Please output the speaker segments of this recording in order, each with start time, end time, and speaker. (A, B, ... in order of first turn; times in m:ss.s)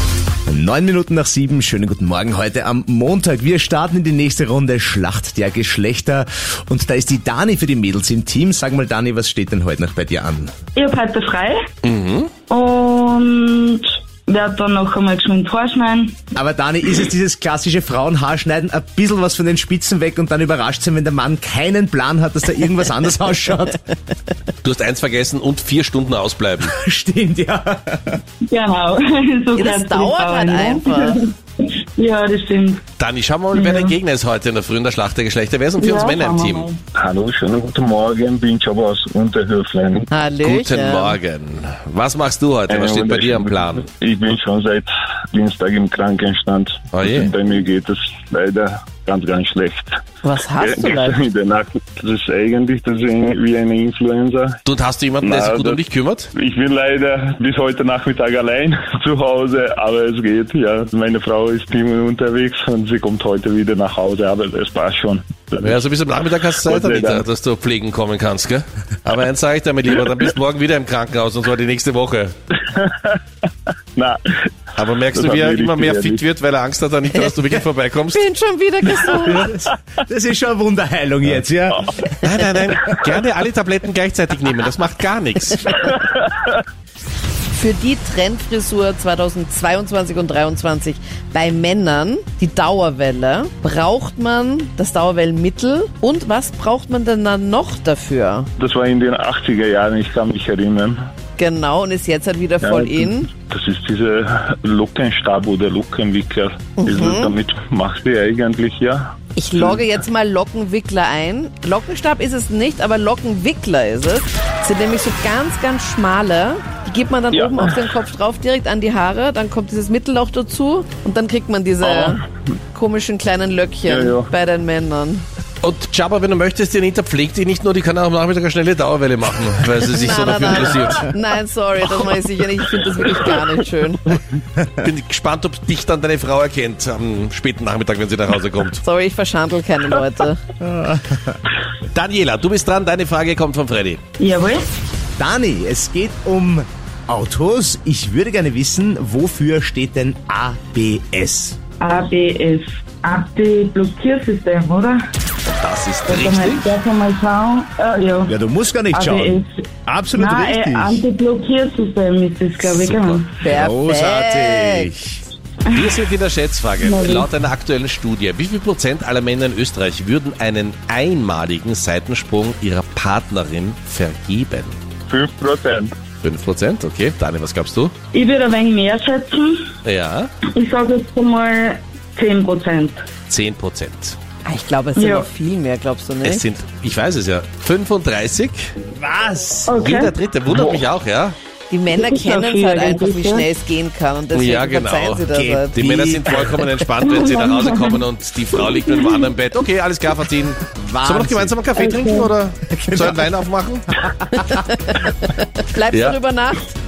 0:00.5-0:10.5 A
0:10.8-0:11.6 B
0:11.8-0:12.3 C
0:12.5-0:16.3 B
0:16.4-0:23.8 A
0:24.6-0:26.7 C
0:26.6-0:28.2 A
0:28.5-0:32.8 B
0:29.6-0:31.2 D
0:33.0-0:36.7 C
0:33.5-0:34.0 B
0:35.8-0:36.8 B
0:37.0-0:40.1 E
0:40.1-0:41.2 D
0:40.4-0:43.9 C
0:42.7-0:50.0 E
0:46.9-0:47.3 C
0:50.2-0:51.2 D
0:50.6-0:54.6 E
0:54.6-0:56.3 C
0:55.2-1:05.8 E
1:05.6-1:12.3 C
1:06.6-1:07.2 E
1:12.7-1:13.2 E
1:14.0-1:14.3 E
1:14.8-1:18.2 C
1:15.1-1:16.2 E
1:18.1-1:19.5 D
1:19.1-1:22.9 A
1:22.2-1:25.8 C
1:26.0-1:26.5 E
1:27.5-1:38.5 D
1:38.6-1:41.0 E
1:41.4-1:43.3 D
1:42.6-1:49.8 E
1:46.8-1:47.3 D
1:49.4-2:02.2 D
1:57.3-1:57.9 E
2:01.8-2:02.2 E
2:02.7-2:05.2 D
2:03.9-2:04.3 E
2:05.6-2:11.1 C
2:09.9-2:14.2 D
2:14.8-2:18.8 C
2:18.8-2:20.4 D
2:20.6-2:21.4 A
2:21.9-2:24.0 C
2:24.2-2:24.7 B
2:25.2-2:31.6 A
2:31.8-2:35.0 B
2:35.5-2:36.7 C
2:36.1-2:38.3 B
2:38.3-2:41.0 A
2:38.9-2:43.4 B
2:42.7-2:43.2 C
2:43.4-2:44.9 D
2:43.4-2:45.2 A
2:45.7-2:54.8 C
2:46.8-2:47.3 B
2:55.1-2:56.0 E
2:56.2-2:57.9 C
2:58.1-2:59.7 B
2:59.8-3:00.3 C
3:00.4-3:03.0 B
3:03.3-3:04.2 C
3:04.4-3:06.4 D
3:05.0-3:05.3 B
3:06.2-3:08.7 C
3:08.9-3:09.8 A
3:09.7-3:10.1 B
3:09.8-3:11.4 C
3:11.7-3:15.8 D
3:11.9-3:13.5 B
3:14.3-3:24.0 C
3:15.3-3:16.6 A
3:17.0-3:18.0 B
3:18.8-3:19.3 B
3:20.7-3:21.6 A
3:21.8-3:22.3 B
3:22.7-3:23.3 A
3:23.9-3:24.6 A
3:24.4-3:26.7 D
3:25.9-3:26.2 C